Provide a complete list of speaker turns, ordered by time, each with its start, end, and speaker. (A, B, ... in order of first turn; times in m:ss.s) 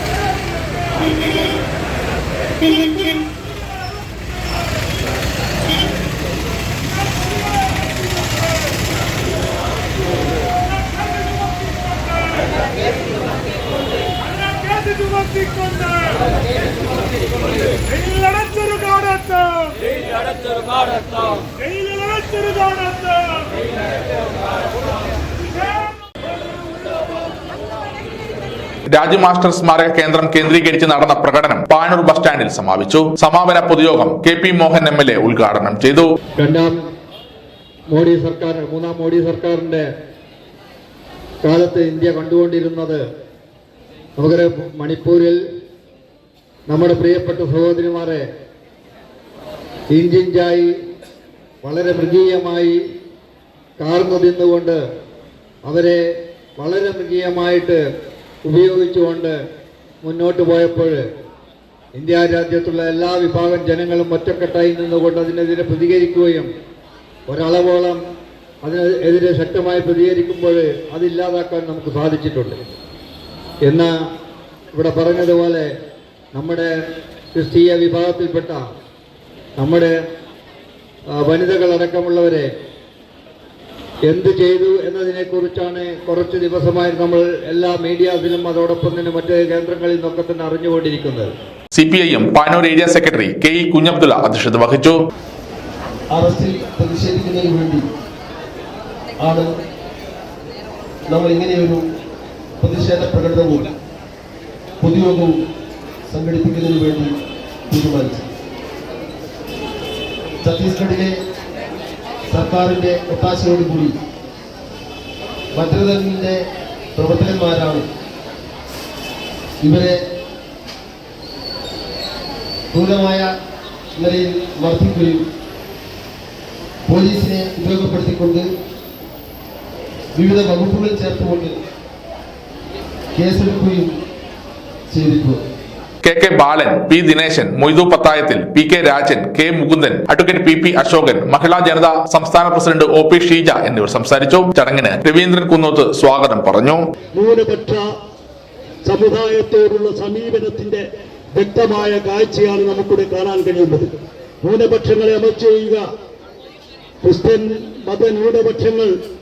0:15.0-0:15.3 A
0:18.4-0:19.2 A
0:28.9-0:36.1 B
0:36.4-0:36.8 C
0:37.9-0:39.8 C
0:41.4-0:43.0 C
0:44.2-0:45.4 C
0:46.7-0:48.2 C
0:49.9-0:50.7 C
0:51.6-0:52.8 C
0:53.8-0:54.8 C
0:55.6-0:56.0 C
0:56.6-0:57.8 C
0:58.5-0:59.3 C
1:00.0-1:01.0 C
1:01.9-1:06.5 C
1:07.3-1:08.0 C
1:08.6-1:12.6 C
1:14.7-1:15.7 C
1:16.3-1:16.7 C
1:17.3-1:18.6 C
1:19.6-1:19.9 C
1:21.1-1:22.5 C
1:24.1-1:31.3 C
1:31.7-1:35.0 B
1:36.1-1:37.8 D
1:39.2-1:39.5 D
1:41.1-1:41.8 D
1:42.6-1:43.7 D
1:44.8-1:45.4 D
1:46.1-1:47.1 D
1:47.7-1:48.2 D
1:50.4-1:51.1 D
1:52.3-1:54.0 D
1:55.5-1:56.4 D
1:56.9-1:57.9 D
1:59.6-2:00.0 D
2:02.7-2:03.3 D
2:04.0-2:05.2 D
2:06.8-2:08.5 D
2:10.1-2:11.6 D
2:13.1-2:13.9 D
2:14.9-2:15.4 D
2:16.0-2:26.8 B
2:27.1-2:27.8 A
2:28.8-2:30.8 A
2:31.4-2:35.8 A
2:37.0-2:38.9 A